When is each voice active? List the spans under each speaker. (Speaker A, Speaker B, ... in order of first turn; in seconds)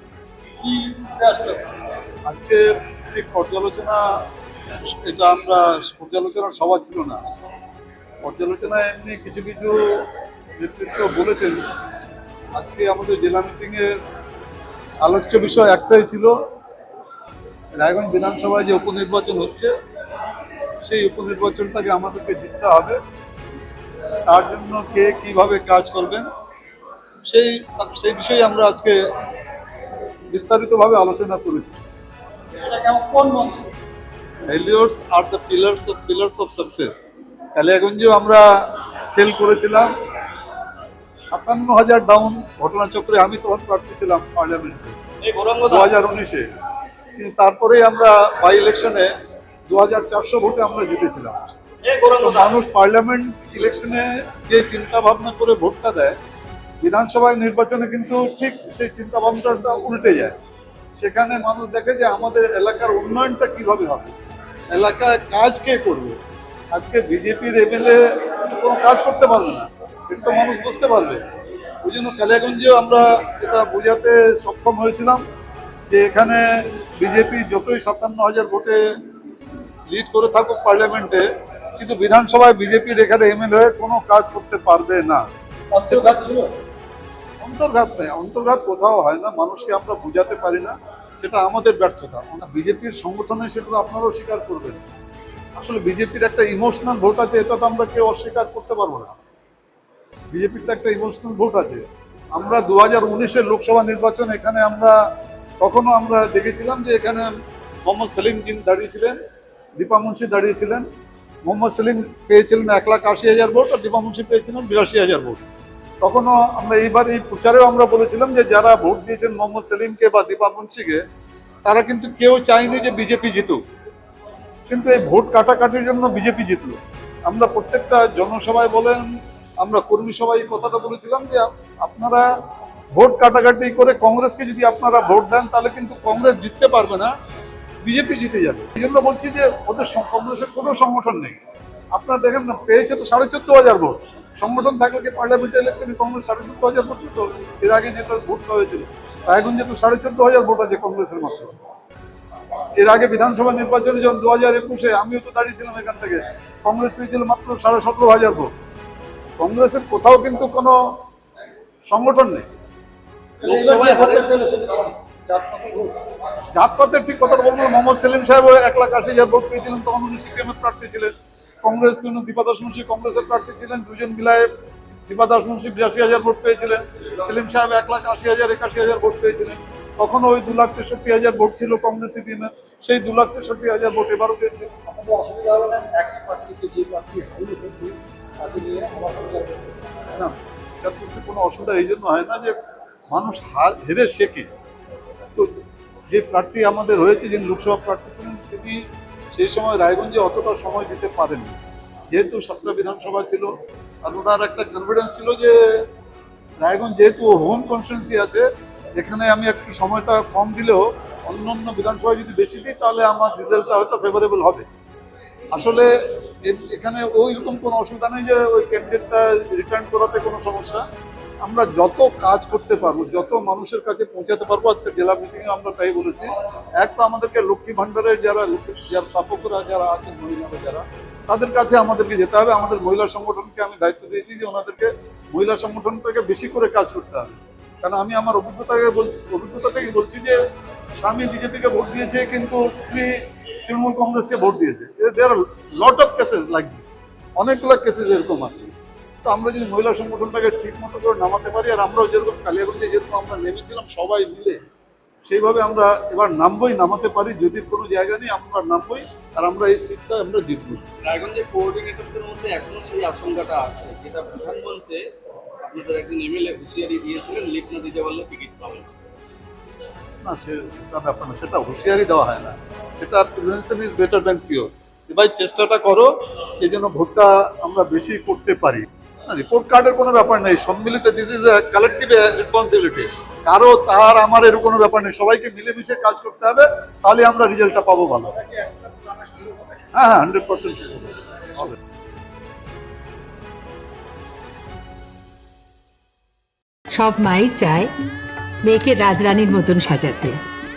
Speaker A: 0.6-1.6, 32.8-33.6, 85.7-86.4, 163.4-164.9, 184.9-189.6
Speaker B: 2.3-4.0, 4.7-7.2, 8.2-10.0, 10.6-11.6, 12.5-13.9, 15.0-16.3, 17.8-19.7, 20.8-23.0, 24.3-26.3, 27.3-29.0, 30.3-31.8, 34.5-37.0, 37.5-38.4, 39.1-39.9, 41.3-45.0, 45.6-46.6, 47.2-49.1, 49.7-51.3, 52.2-56.1, 56.8-60.4, 61.0-64.1, 64.7-66.2, 66.7-71.2, 71.8-75.2, 75.9-78.8, 79.9-81.2, 81.8-85.2, 85.8-86.2, 87.4-94.8, 95.6-99.2, 100.3-105.0, 105.6-107.3, 107.8-109.2, 109.8-110.9, 111.4-115.4, 116.0-121.0, 121.6-123.6, 124.7-129.1, 129.6-132.3, 132.9-137.1, 137.8-141.4, 141.9-151.5, 152.8-158.5, 159.4-160.8, 161.9-162.4, 166.6-171.1, 171.6-174.5, 175.1-184.7, 190.1-192.6, 193.1-194.5, 196.1-198.8, 199.3-201.6, 202.1-203.5, 204.0-205.6, 206.6-208.4, 209.0-214.7, 215.5-215.9, 216.4-220.8, 221.4-240.3, 241.0-243.1, 243.7-248.7, 249.2-254.6, 255.2-260.8, 270.2-288.3, 289.9-291.7
Speaker C: 45.2-45.9, 51.8-52.6, 163.4-164.4, 165.3-165.7, 261.0-265.0, 265.6-268.9
Speaker D: 296.9-297.9, 298.6-300.4